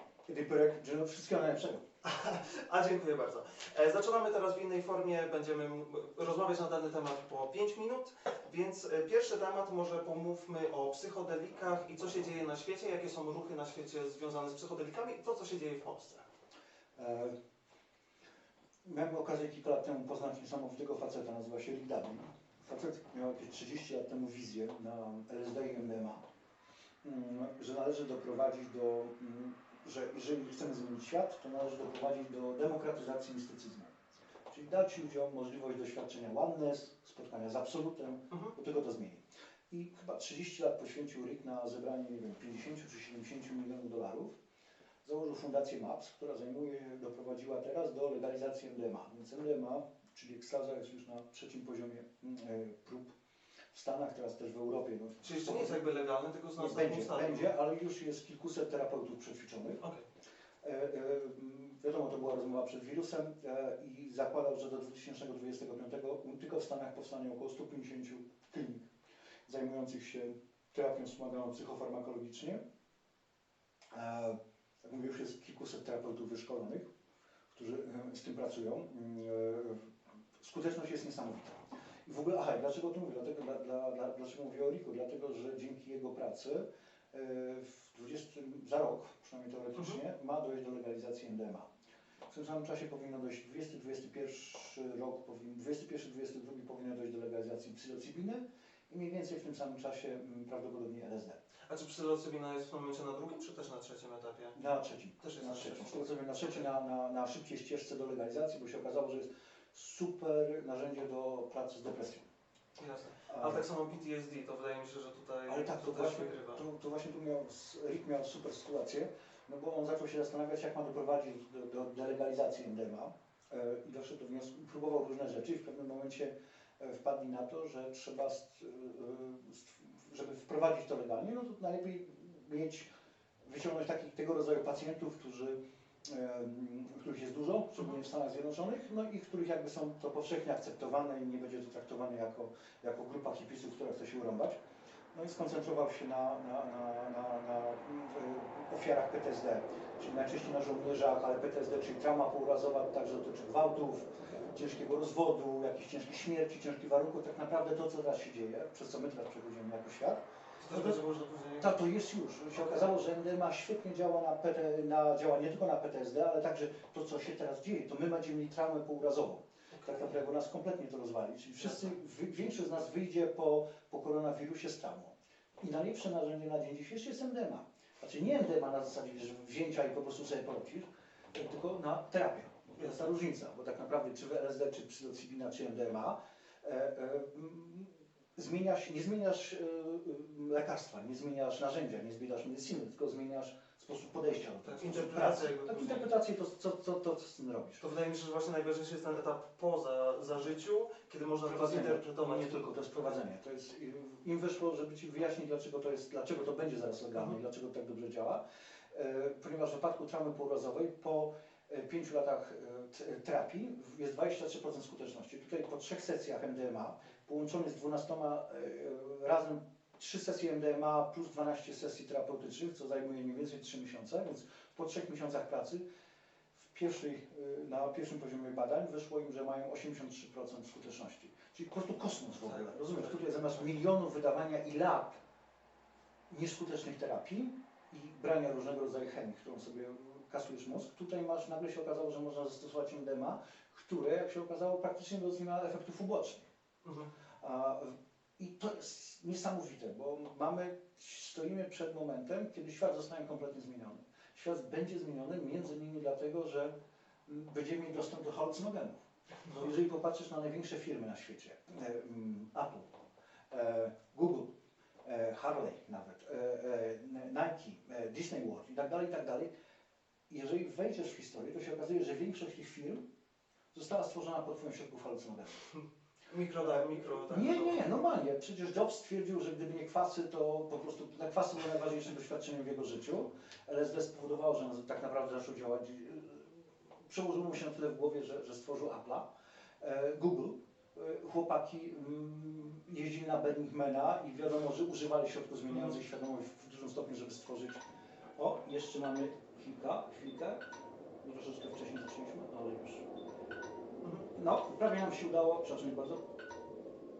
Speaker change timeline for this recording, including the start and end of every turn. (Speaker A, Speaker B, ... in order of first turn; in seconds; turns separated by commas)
Speaker A: 0.2-1.8, Speaker B: 2.0-16.2, Speaker A: 16.9-17.3, Speaker A: 18.8-26.2, Speaker A: 27.0-33.9, Speaker A: 34.5-44.4, Speaker A: 45.0-53.1, Speaker A: 53.7-55.9, Speaker B: 55.2-57.5, Speaker A: 56.5-59.8, Speaker A: 60.6-68.9, Speaker A: 69.5-72.6, Speaker A: 73.9-76.9, Speaker A: 77.5-91.7, Speaker A: 92.3-101.4, Speaker B: 101.7-104.5, Speaker A: 104.5-112.2, Speaker B: 105.2-106.6, Speaker B: 112.8-116.6, Speaker A: 113.3-113.7, Speaker A: 115.5-132.9, Speaker A: 133.4-144.6, Speaker A: 145.1-161.0, Speaker B: 160.6-161.8, Speaker A: 161.6-197.8, Speaker B: 162.5-162.9, Speaker B: 169.7-170.2, Speaker B: 171.6-172.0, Speaker B: 182.8-183.1, Speaker B: 194.6-196.1, Speaker B: 197.8-203.2, Speaker A: 201.4-208.4, Speaker A: 208.9-225.8, Speaker A: 226.5-235.2, Speaker B: 232.4-233.8, Speaker A: 236.3-246.5, Speaker B: 246.8-247.1, Speaker A: 247.4-256.7, Speaker A: 257.2-262.9, Speaker A: 263.5-264.5, Speaker A: 265.0-269.5, Speaker A: 270.3-273.0, Speaker A: 273.7-275.7, Speaker B: 276.3-277.9, Speaker A: 276.7-289.2, Speaker A: 289.8-297.8, Speaker B: 295.7-296.0, Speaker A: 298.4-300.6, Speaker A: 301.2-303.1, Speaker B: 304.0-304.3, Speaker A: 304.3-306.2